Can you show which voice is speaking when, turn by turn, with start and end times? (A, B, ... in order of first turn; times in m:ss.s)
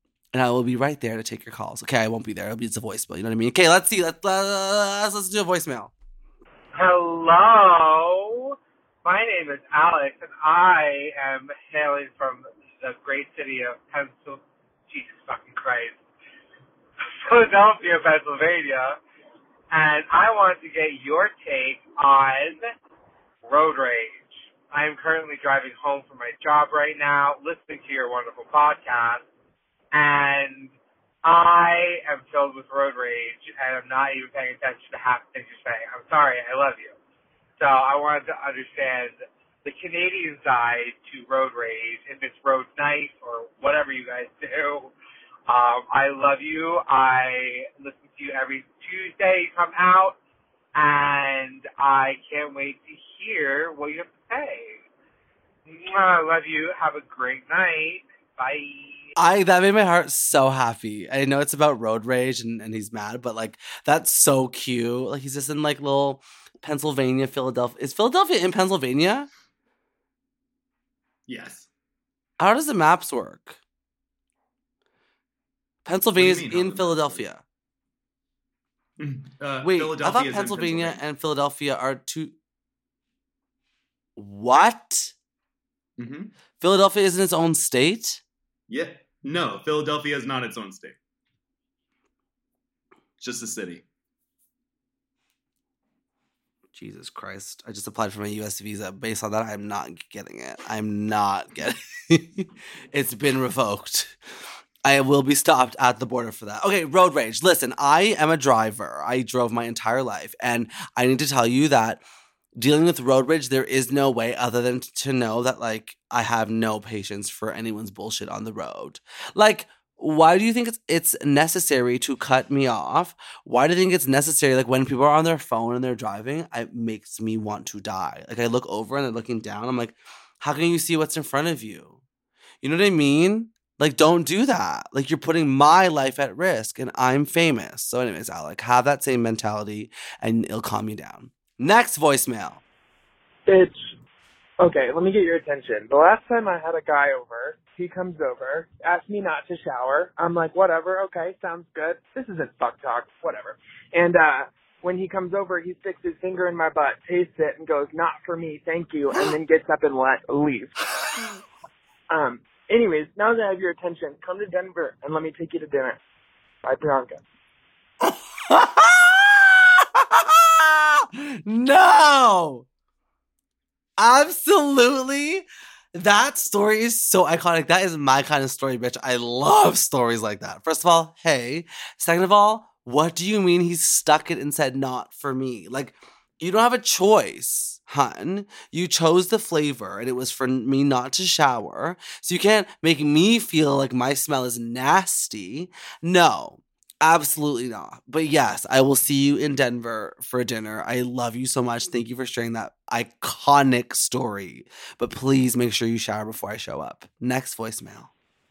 0:00.3-0:05.9 A
0:06.7-0:16.0 B
0:17.2-0:19.0 B
0:19.7-0:22.7 B
0:23.4-0:29.2 B
0:29.9-0:30.7 B
0:31.2-0:37.0 B
0:37.6-0:44.9 B
0:45.5-0:50.2 B
0:50.7-0:54.8 B
0:55.6-0:59.0 B
0:59.2-1:09.3 A
1:11.3-1:11.7 C
1:12.4-1:13.6 A
1:15.8-1:17.4 A
1:16.2-1:17.2 C
1:19.0-1:21.0 C
1:19.6-1:22.3 A
1:24.2-1:25.1 A
1:26.0-1:26.3 C
1:26.6-1:28.2 A
1:28.7-1:31.0 C
1:33.2-1:33.8 C
1:36.7-1:44.1 A
1:44.8-1:52.0 A
1:52.6-2:12.0 A
2:12.6-2:22.6 A
2:23.4-2:23.8 D
2:24.6-2:41.0 D
2:42.1-2:46.0 D
2:46.6-2:47.2 D
2:48.0-2:52.6 A
2:54.0-3:28.1 A